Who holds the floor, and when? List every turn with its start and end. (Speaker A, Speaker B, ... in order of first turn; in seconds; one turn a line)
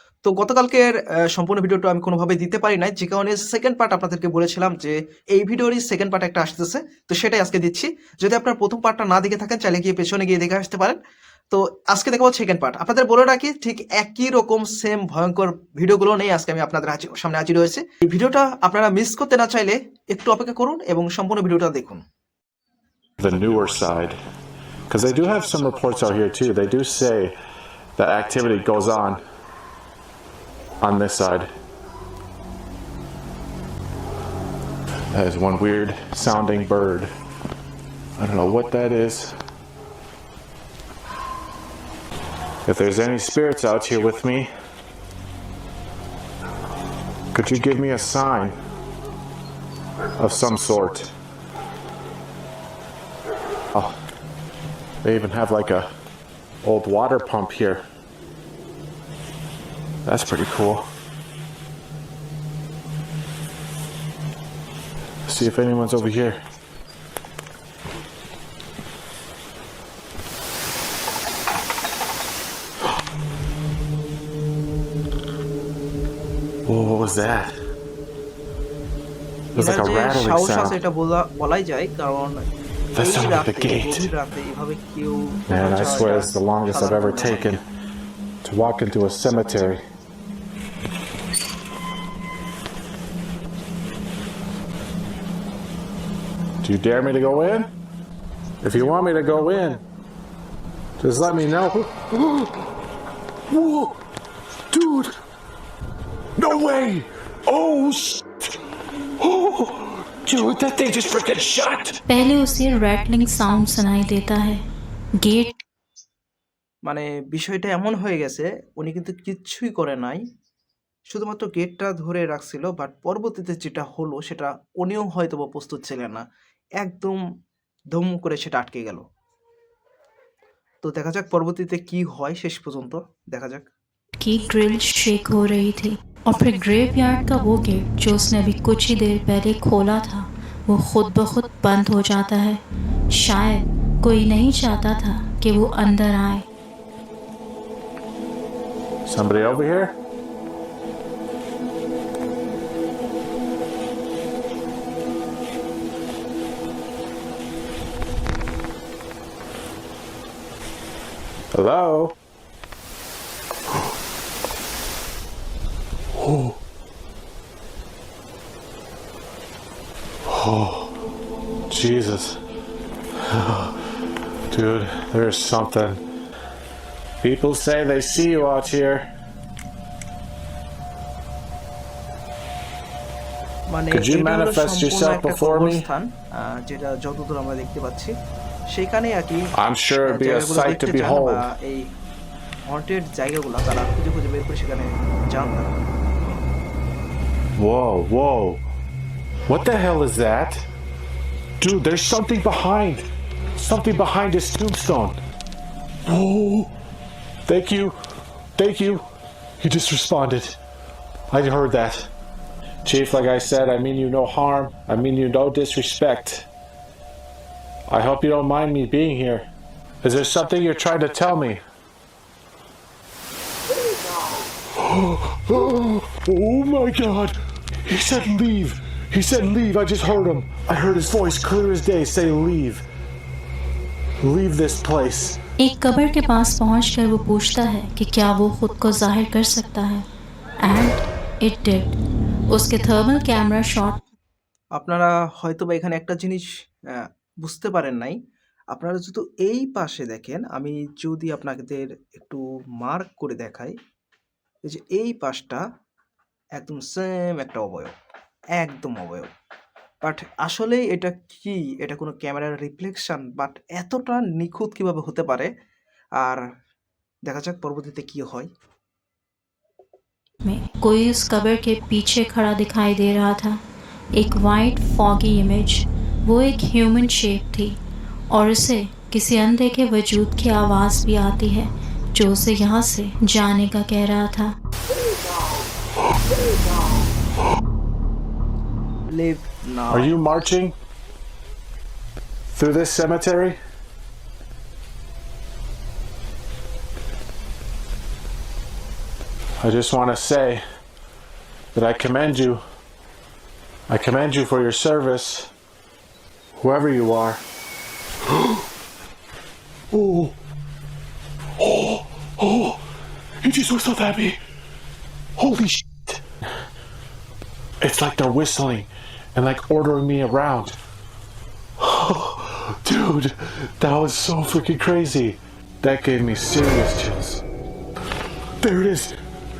Speaker A: 0.2-11.0
Speaker A: 11.5-22.0
Speaker B: 23.2-24.2
Speaker B: 24.9-27.3
Speaker B: 28.0-29.2
Speaker B: 30.8-31.5
Speaker B: 35.1-37.1
Speaker B: 38.2-39.4
Speaker B: 42.7-44.5
Speaker B: 47.3-48.6
Speaker B: 50.2-51.1
Speaker B: 55.0-55.9
Speaker B: 56.6-57.8
Speaker B: 60.1-60.9
Speaker B: 65.3-66.4
Speaker B: 76.7-77.6
Speaker B: 79.5-80.8
Speaker A: 79.5-87.6
Speaker B: 82.9-84.1
Speaker B: 85.5-87.6
Speaker B: 88.4-89.8
Speaker B: 96.6-97.7
Speaker B: 98.6-99.8
Speaker B: 101.0-102.5
Speaker B: 103.5-103.9
Speaker B: 104.7-105.2
Speaker B: 106.4-108.3
Speaker B: 109.2-112.0
Speaker C: 112.1-114.6
Speaker C: 115.2-115.5
Speaker A: 116.8-120.2
Speaker A: 121.1-126.2
Speaker A: 126.8-127.2
Speaker A: 127.9-129.0
Speaker A: 130.8-133.7
Speaker C: 134.2-142.6
Speaker C: 143.1-146.5
Speaker B: 149.1-149.9
Speaker B: 161.5-162.2
Speaker B: 166.2-166.6
Speaker B: 170.2-170.9
Speaker B: 171.7-172.4
Speaker B: 173.2-173.8
Speaker B: 174.5-176.0
Speaker B: 177.2-179.1
Speaker A: 183.7-188.1
Speaker B: 183.9-185.8
Speaker A: 188.7-189.5
Speaker B: 189.6-191.5
Speaker A: 190.1-191.8
Speaker A: 192.7-195.8
Speaker B: 197.6-198.6
Speaker B: 199.5-200.7
Speaker B: 201.6-205.2
Speaker B: 206.1-206.7
Speaker B: 207.5-208.0
Speaker B: 208.6-209.1
Speaker B: 209.6-210.6
Speaker B: 211.3-212.1
Speaker B: 212.8-216.5
Speaker B: 217.9-219.5
Speaker B: 220.0-221.6
Speaker B: 224.8-232.8
Speaker B: 234.2-235.4
Speaker C: 235.6-240.1
Speaker C: 240.6-242.0
Speaker C: 242.5-244.0
Speaker A: 244.7-248.2
Speaker A: 248.7-253.8
Speaker A: 254.7-255.6
Speaker A: 256.6-258.0
Speaker A: 258.6-259.3
Speaker A: 260.0-265.5
Speaker A: 267.3-268.5
Speaker C: 270.4-273.6
Speaker C: 274.2-277.8
Speaker C: 278.3-284.5
Speaker A: 289.1-290.1
Speaker B: 289.9-290.8
Speaker B: 292.5-293.6
Speaker B: 299.6-300.6
Speaker B: 301.7-302.6
Speaker B: 303.9-305.5
Speaker B: 306.6-307.4
Speaker B: 309.9-310.4
Speaker B: 311.6-312.8
Speaker B: 313.4-314.4
Speaker B: 315.4-316.2
Speaker B: 317.8-320.8
Speaker B: 321.8-327.4
Speaker B: 328.6-329.2